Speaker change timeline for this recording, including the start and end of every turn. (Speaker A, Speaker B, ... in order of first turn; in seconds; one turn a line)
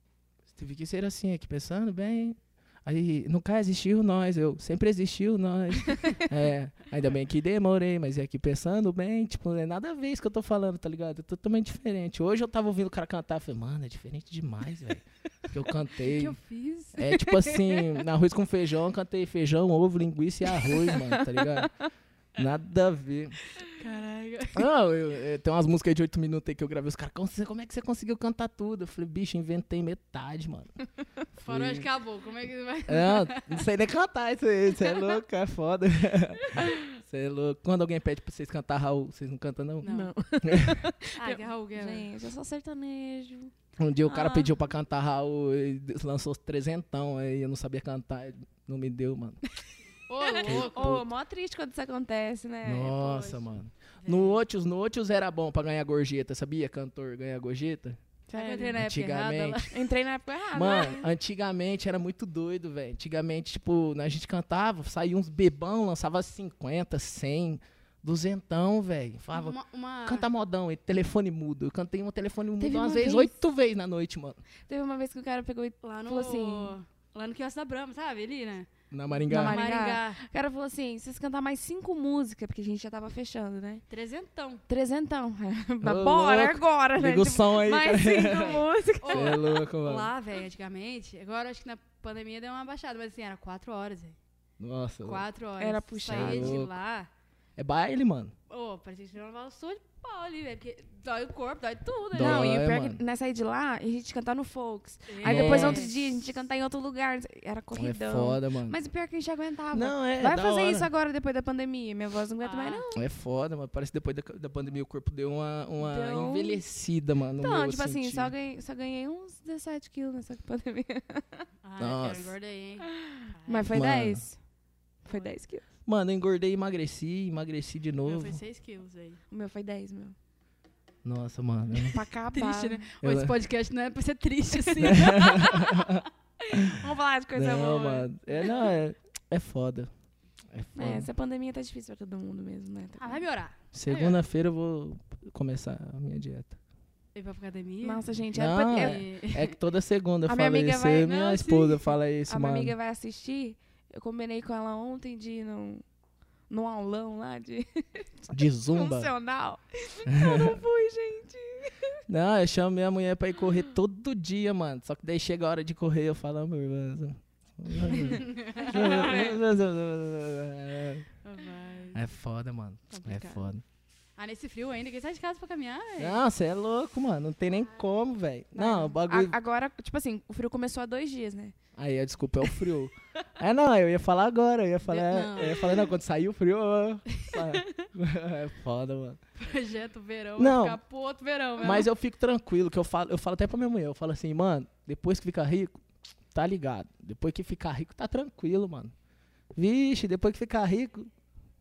Speaker A: 0.5-16.4
Speaker B: 16.0-18.0
Speaker A: 16.9-21.7
Speaker C: 20.9-21.7
Speaker A: 22.4-23.4
Speaker B: 23.6-24.7
Speaker A: 24.5-30.7
Speaker A: 31.4-31.9
Speaker B: 31.4-33.6
Speaker A: 32.9-39.9
Speaker B: 39.8-40.1
Speaker C: 39.8-43.5
Speaker A: 40.4-40.8
Speaker B: 41.1-42.1
Speaker A: 43.8-49.4
Speaker C: 44.0-44.5
Speaker B: 50.1-51.0
Speaker C: 50.2-53.4
Speaker A: 50.4-51.0
Speaker A: 52.6-58.0
Speaker B: 54.0-54.4
Speaker C: 58.3-58.8
Speaker B: 58.3-59.8
Speaker A: 58.7-59.7
Speaker C: 59.7-61.1
Speaker A: 60.5-74.4
Speaker B: 69.3-70.3
Speaker C: 72.6-73.3
Speaker C: 74.7-76.8
Speaker B: 75.8-80.2
Speaker A: 78.9-79.6
Speaker C: 79.3-83.8
Speaker B: 83.9-84.6
Speaker C: 84.7-89.4
Speaker A: 85.8-90.1
Speaker B: 89.0-94.2
Speaker A: 94.6-95.2
Speaker B: 95.0-97.1
Speaker C: 95.6-96.6
Speaker A: 96.1-96.7
Speaker A: 97.6-98.3
Speaker B: 98.5-102.5
Speaker A: 102.1-103.0
Speaker C: 102.1-113.0
Speaker B: 105.1-106.0
Speaker A: 105.2-105.9
Speaker A: 107.7-108.8
Speaker A: 109.7-110.9
Speaker B: 112.4-112.8
Speaker A: 112.9-118.3
Speaker C: 115.8-116.6
Speaker C: 117.4-121.5
Speaker B: 121.6-123.8
Speaker A: 121.8-122.3
Speaker C: 122.9-124.4
Speaker A: 123.7-124.2
Speaker C: 125.0-125.6
Speaker A: 125.8-128.4
Speaker B: 128.0-129.2
Speaker C: 129.3-130.1
Speaker A: 131.0-132.0
Speaker C: 131.9-132.8
Speaker B: 132.3-135.9
Speaker A: 133.0-133.3
Speaker A: 134.8-139.9
Speaker C: 136.4-138.5
Speaker A: 140.5-141.1
Speaker C: 140.8-143.2
Speaker B: 143.0-144.2
Speaker A: 143.7-146.6
Speaker B: 147.1-148.0
Speaker C: 147.8-149.0
Speaker A: 148.3-152.7
Speaker B: 148.7-149.6
Speaker C: 150.2-151.3
Speaker B: 151.0-151.9
Speaker C: 152.3-155.8
Speaker C: 156.5-162.0
Speaker A: 158.3-159.1
Speaker A: 160.1-160.6
Speaker A: 162.1-171.1
Speaker B: 168.0-169.3
Speaker B: 171.2-172.0
Speaker A: 171.9-173.6
Speaker C: 172.9-173.4
Speaker B: 174.2-176.2
Speaker A: 176.0-179.3
Speaker C: 178.5-181.5
Speaker A: 181.8-189.2
Speaker B: 184.9-185.9
Speaker B: 187.2-187.8
Speaker B: 189.4-191.9
Speaker A: 190.4-190.8
Speaker A: 191.6-195.8
Speaker A: 196.3-198.9
Speaker A: 199.5-201.1